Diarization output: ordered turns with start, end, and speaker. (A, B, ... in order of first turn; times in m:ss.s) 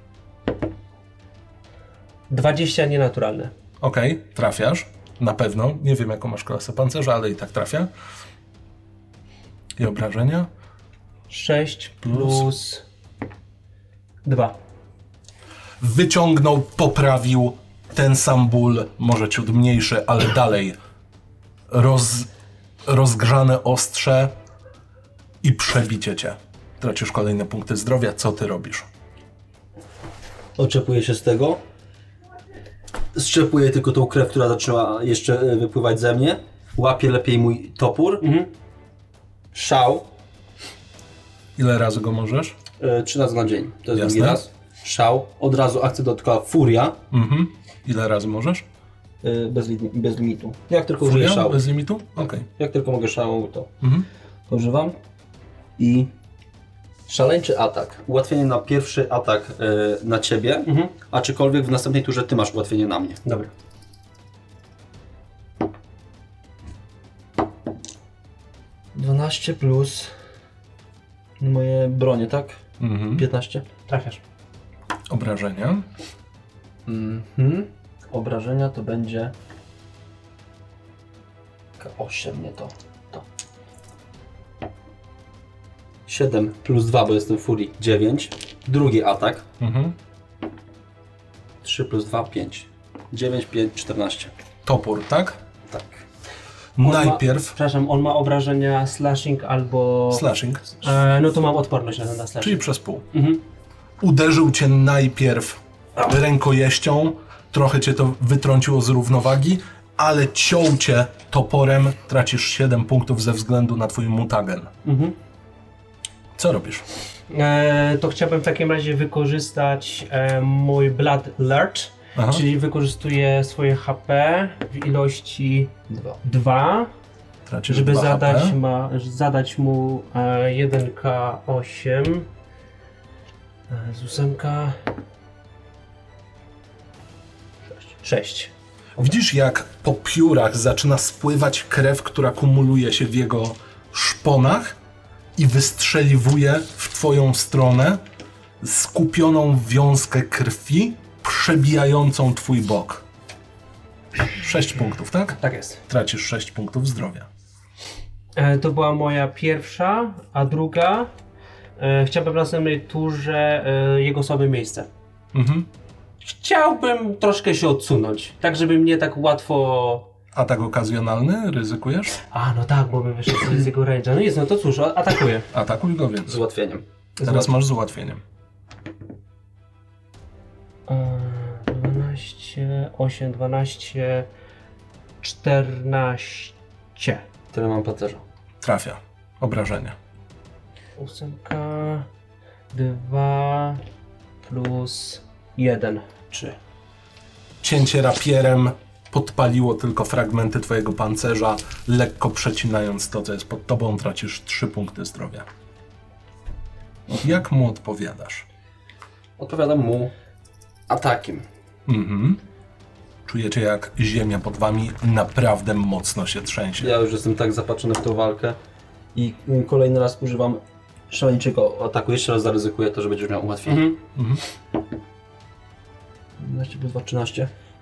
0:02.3-0:03.5 A
0:03.8-0:07.9 B
0:09.8-0:10.5 B
0:11.3-0:12.8 A
0:12.0-0:12.5 B
0:14.2-0:14.6 A
0:15.8-0:20.8 B
0:21.7-0:22.3 B
0:22.8-0:24.3 B
0:25.4-0:28.9 B
0:30.6-0:31.6 C
0:33.1-0:38.2 C
0:38.2-0:38.5 A
0:39.5-0:40.1 C
0:41.6-0:42.6 B
0:42.8-0:47.0 C
0:43.9-0:44.4 B
0:47.1-0:48.6 B
0:49.2-0:51.7 C
0:51.0-0:52.5 B
0:52.2-0:53.7 C
0:53.8-0:54.1 B
0:54.5-0:55.0 C
0:55.8-0:56.1 C
0:57.1-1:03.2 C
1:00.6-1:00.9 A
1:03.2-1:03.5 A
1:08.9-1:10.1 C
1:11.4-1:12.6 C
1:12.8-1:13.2 B
1:13.1-1:13.7 C
1:13.9-1:14.2 A
1:15.1-1:15.8 B
1:16.9-1:19.3 C
1:21.8-1:23.2 C
1:26.1-1:29.5 C
1:29.6-1:30.0 B
1:31.6-1:34.3 C
1:34.6-1:35.4 B
1:35.7-1:36.0 C
1:36.8-1:37.5 B
1:36.8-1:40.2 A
1:40.1-1:40.8 B
1:40.8-1:43.4 A
1:42.4-1:43.0 B
1:44.0-1:54.7 B
1:54.8-1:55.1 A
1:56.4-1:56.8 B
1:57.3-2:05.7 A
2:02.2-2:02.4 B
2:05.9-2:06.2 C
2:06.2-2:06.9 A
2:07.5-2:08.5 B
2:07.7-2:12.3 A
2:13.7-2:14.8 A
2:18.0-2:18.5 A
2:19.0-2:24.8 B
2:25.4-2:28.0 B
2:28.6-2:33.0 B
2:34.3-2:35.4 B
2:35.4-2:35.8 A
2:35.9-2:37.3 B
2:38.3-2:41.1 A
2:41.8-2:44.9 A
2:45.3-2:45.7 B
2:46.2-2:50.1 A
2:50.3-2:52.2 B
2:52.3-2:55.5 A
2:55.5-2:56.4 B
2:56.2-2:57.4 C
2:57.2-2:58.2 B
3:00.9-3:04.3 A
3:05.2-3:07.2 A
3:07.5-3:08.2 C
3:08.6-3:10.0 B
3:11.0-3:12.1 A
3:12.7-3:13.8 A
3:14.4-3:16.1 A
3:17.6-3:25.4 B
3:27.2-3:28.4 B
3:29.4-3:30.1 C
3:30.9-3:31.4 C
3:31.9-3:32.4 B
3:33.2-3:36.9 B
3:36.8-3:38.6 C
3:39.1-3:43.9 C
3:43.6-3:44.0 A
3:44.2-3:44.4 B
3:46.4-3:47.5 C